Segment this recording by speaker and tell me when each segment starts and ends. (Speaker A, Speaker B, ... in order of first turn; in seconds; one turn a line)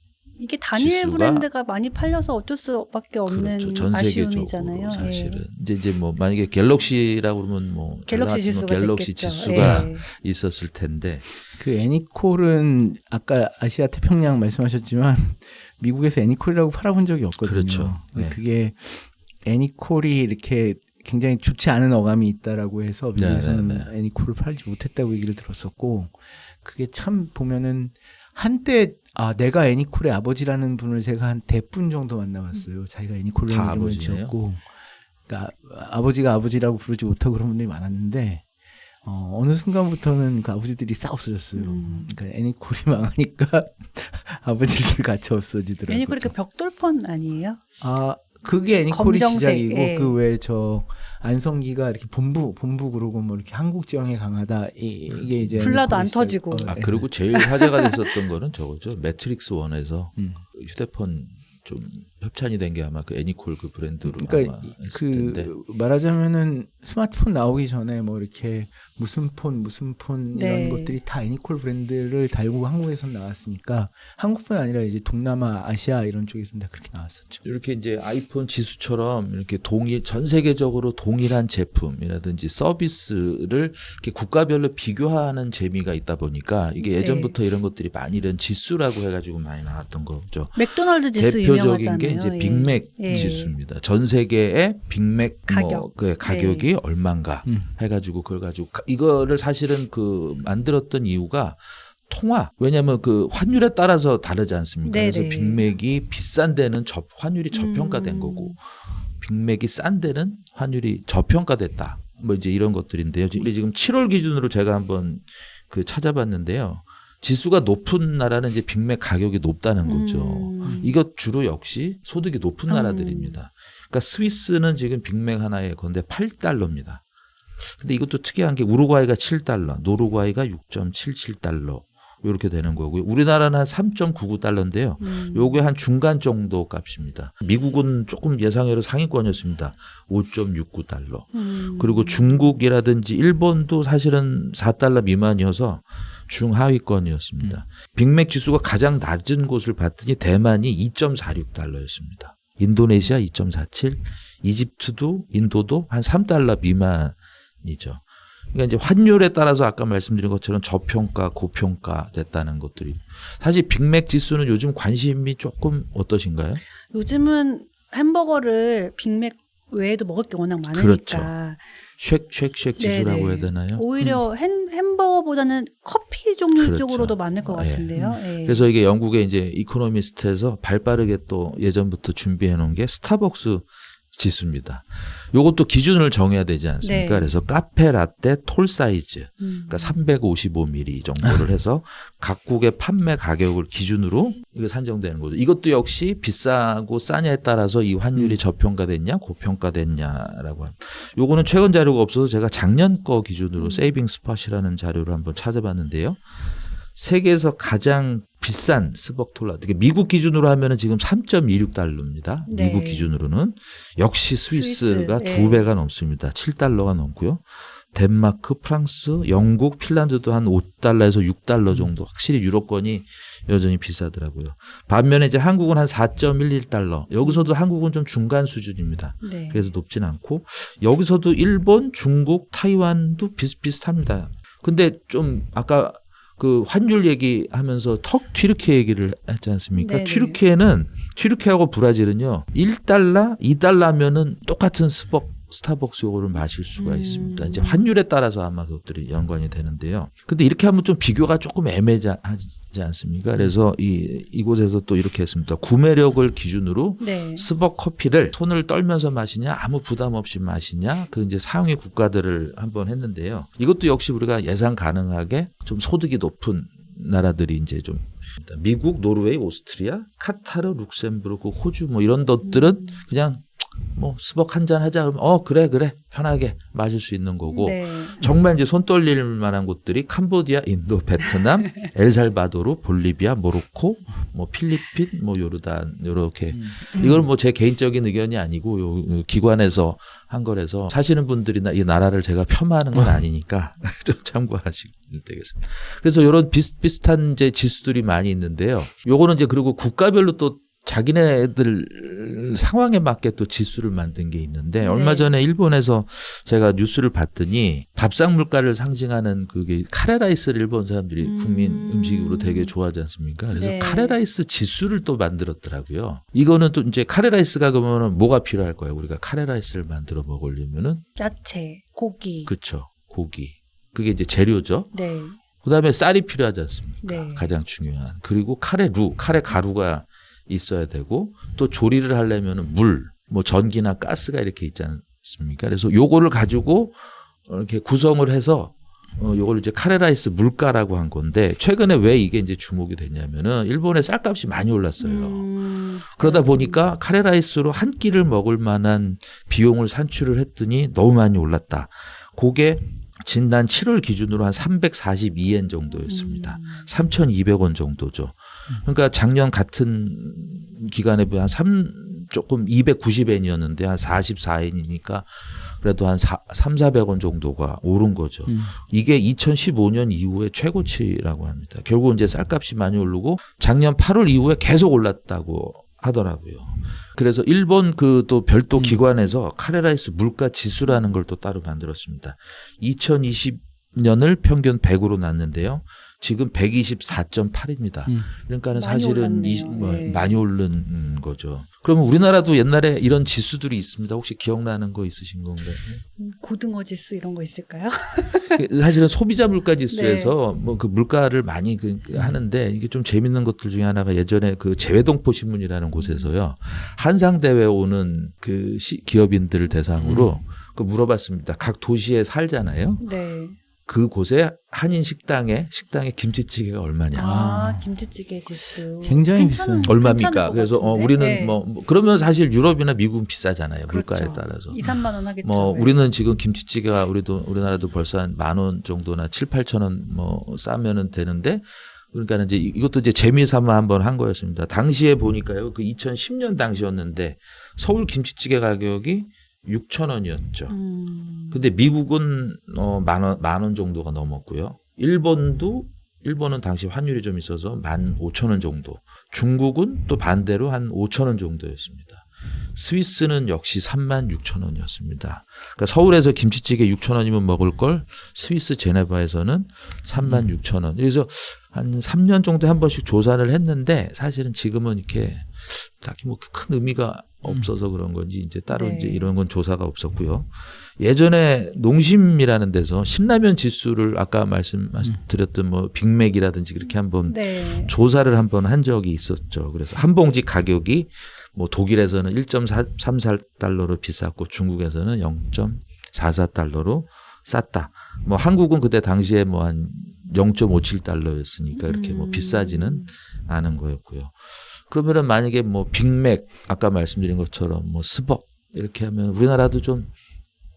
Speaker A: 0.4-5.4
Speaker B: 0.7-1.5
Speaker B: 3.3-11.3
Speaker A: 8.1-10.1
Speaker C: 9.6-9.9
Speaker C: 11.5-34.7
Speaker B: 17.4-18.4
Speaker B: 23.1-23.9
Speaker B: 33.5-34.3
Speaker C: 35.3-38.5
Speaker C: 39.0-46.3
Speaker A: 41.5-42.1
Speaker A: 45.9-47.6
Speaker C: 47.8-57.1
Speaker A: 48.9-50.2
Speaker B: 55.1-55.6
Speaker A: 55.6-56.8
Speaker B: 56.7-65.5
Speaker A: 57.3-57.9
Speaker C: 60.2-60.4
Speaker C: 64.0-77.4
Speaker A: 70.3-71.0
Speaker B: 77.4-127.0
Speaker A: 86.8-87.3
Speaker A: 90.6-93.5
Speaker A: 95.5-96.7
Speaker C: 97.5-97.7
Speaker A: 104.8-105.7
Speaker A: 107.5-108.6
Speaker A: 119.8-120.9
Speaker A: 122.7-123.4
Speaker B: 127.7-166.6
Speaker A: 135.0-135.6
Speaker A: 141.3-142.6
Speaker A: 166.9-171.7
Speaker B: 170.7-171.3
Speaker B: 172.0-173.9
Speaker A: 172.8-178.7
Speaker B: 176.6-206.2
Speaker A: 186.8-187.4
Speaker A: 189.4-190.0
Speaker C: 198.1-198.4
Speaker A: 203.6-204.0
Speaker B: 206.9-321.1
Speaker A: 212.5-213.1
Speaker A: 214.5-215.7
Speaker A: 227.2-227.5
Speaker A: 229.2-229.7
Speaker A: 239.8-240.4
Speaker A: 246.8-247.9
Speaker A: 257.0-257.5
Speaker A: 272.4-273.0
Speaker A: 277.5-278.2
Speaker A: 281.3-281.9
Speaker C: 286.5-287.3
Speaker C: 292.9-293.2
Speaker A: 304.8-305.4
Speaker A: 311.2-312.7
Speaker A: 313.5-314.2
Speaker A: 321.2-322.5
Speaker B: 322.5-325.0
Speaker A: 324.9-325.4
Speaker B: 325.6-345.5
Speaker A: 327.0-327.5
Speaker A: 345.0-346.8
Speaker B: 346.1-395.9
Speaker A: 356.1-356.9
Speaker C: 368.5-368.8
Speaker C: 378.7-379.0
Speaker C: 388.1-388.4
Speaker A: 388.7-390.4
Speaker A: 396.1-398.6
Speaker B: 398.5-413.0
Speaker A: 399.9-400.4
Speaker A: 406.0-406.3
Speaker C: 410.0-410.4
Speaker A: 413.0-413.6
Speaker B: 413.9-417.4
Speaker A: 417.1-421.6
Speaker C: 417.2-417.9
Speaker C: 419.0-420.0
Speaker B: 419.9-440.8
Speaker A: 423.9-426.0
Speaker A: 440.7-441.7
Speaker B: 441.5-500.1
Speaker C: 460.2-460.6
Speaker C: 467.4-467.7
Speaker A: 468.7-469.3
Speaker A: 477.3-477.9
Speaker A: 491.7-493.1